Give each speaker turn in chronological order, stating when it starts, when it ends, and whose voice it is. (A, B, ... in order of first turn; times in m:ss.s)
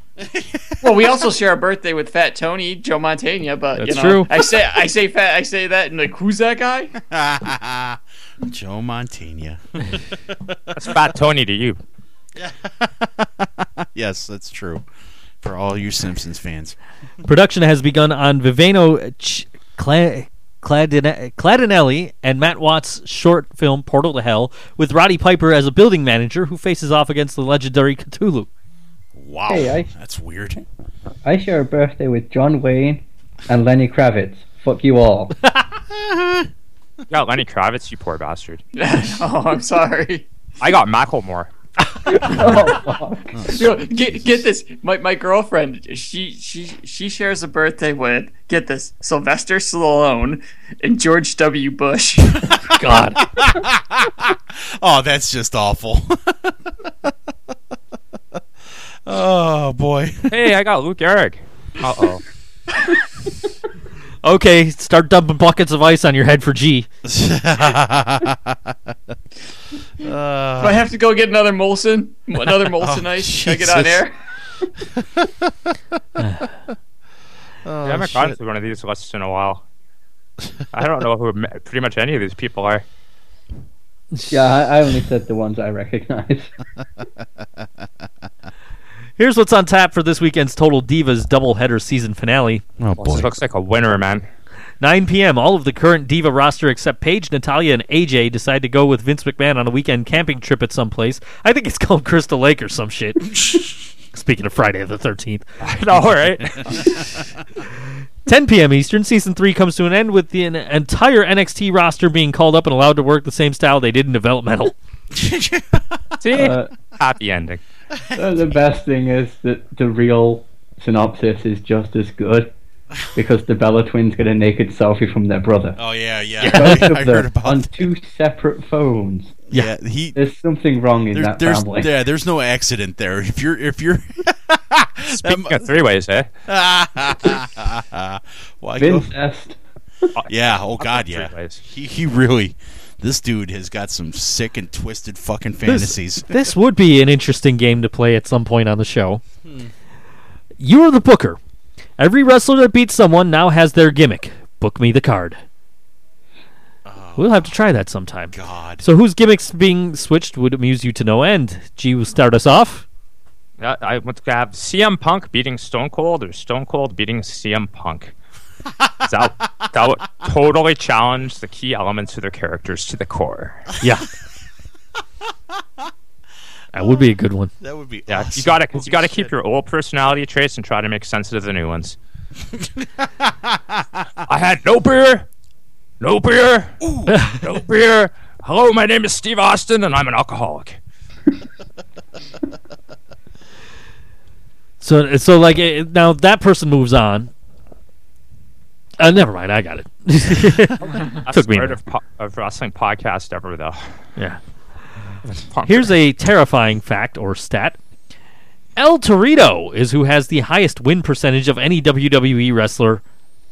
0:00.2-0:01.2 A
0:00.8-0:06.9 B
0:03.8-0:04.3 C
0:07.0-0:10.9 A
0:10.8-0:11.8 D
0:12.4-0:14.8 A
0:15.4-0:16.8 A
0:17.2-0:28.5 C
0:29.2-0:30.6 A
0:29.5-0:29.9 E
0:31.2-0:35.3 E
0:35.9-0:36.5 A
0:37.1-0:38.6 D
0:38.7-0:40.3 B
0:40.6-0:41.5 D
0:42.0-0:43.6 E
0:42.3-0:42.7 A
0:43.4-0:44.3 A
0:43.5-0:52.5 B
0:52.4-0:57.1 A
0:52.7-0:53.2 C
0:59.0-1:00.3 A
1:00.3-1:02.2 D
1:04.2-1:06.9 C
1:07.0-1:08.9 A
1:10.0-1:10.9 A
1:10.6-1:14.1 B
1:12.8-1:14.0 A
1:15.0-1:15.5 A
1:16.2-1:16.5 C
1:17.6-1:18.3 A
1:17.8-1:19.6 D
1:20.7-1:22.8 D
1:24.3-1:26.5 E
1:29.2-1:32.6 C
1:32.8-1:33.3 A
1:33.0-1:34.2 D
1:34.8-1:45.5 C
1:45.6-1:46.9 D
1:46.5-1:47.0 A
1:48.2-1:54.7 C
1:55.1-1:56.0 A
1:56.2-1:57.6 D
1:56.3-1:56.7 E
1:57.9-1:58.4 A
1:58.1-2:02.5 E
2:03.1-2:05.8 E
2:05.8-2:07.8 A
2:06.4-2:09.4 E
2:06.4-2:06.7 C
2:09.5-2:10.2 A
2:10.1-2:11.9 E
2:11.1-2:15.7 A
2:15.1-2:16.3 D
2:16.5-2:19.1 A
2:18.8-2:19.6 E
2:20.1-2:21.6 D
2:20.3-2:26.3 A
2:25.7-2:29.2 C
2:30.6-2:31.4 C
2:32.0-2:35.4 C
2:36.8-2:37.5 A
2:37.2-2:42.8 C
2:38.3-2:38.8 A
2:43.6-2:48.1 D
2:49.0-2:53.7 D
2:53.8-2:54.1 C
2:56.7-2:57.5 C
2:57.6-2:59.3 A
2:58.1-3:02.0 D
3:02.5-3:04.0 A
3:04.3-3:05.3 D
3:06.0-3:06.8 D
3:06.8-3:07.3 A
3:07.1-3:07.4 C
3:07.3-3:10.8 D
3:14.8-3:17.3 C
3:19.0-3:21.8 C
3:20.8-3:23.8 D
3:25.4-3:25.9 D
3:25.6-3:27.8 C
3:28.8-3:33.0 C